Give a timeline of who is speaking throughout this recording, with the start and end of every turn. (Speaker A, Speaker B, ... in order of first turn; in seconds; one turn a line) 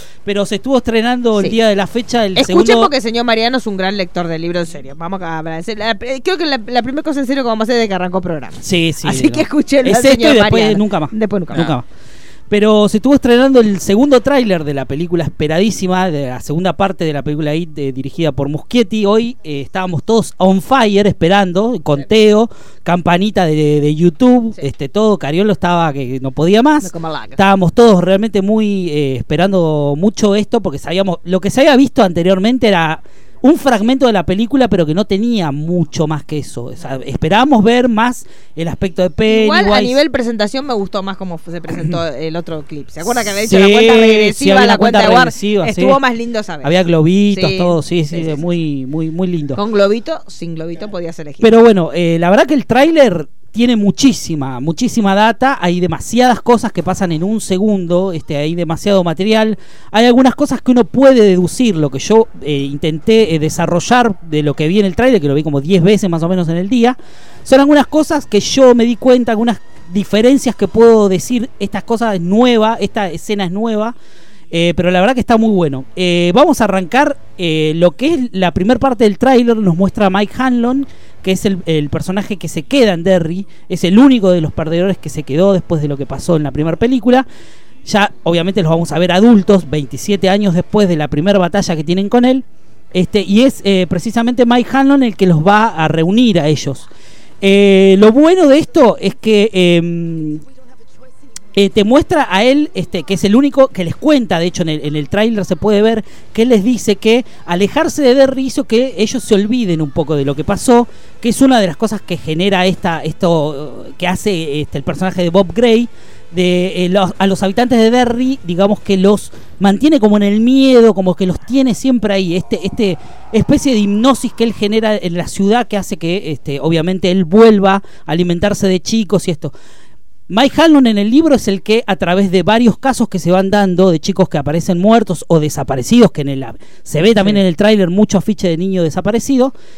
Speaker A: 0.2-2.9
Speaker B: 2.3-11.7
Speaker A: 8.6-11.8
Speaker A: 12.5-40.0
Speaker B: 26.8-27.4
Speaker B: 39.3-48.4
Speaker A: 43.3-46.0
Speaker A: 46.6-49.6
Speaker B: 49.5-51.5
Speaker A: 51.4-73.9
Speaker A: 74.5-87.2
Speaker A: 87.8-96.9
Speaker A: 97.4-100.4
Speaker A: 101.5-129.5
Speaker A: 130.3-139.5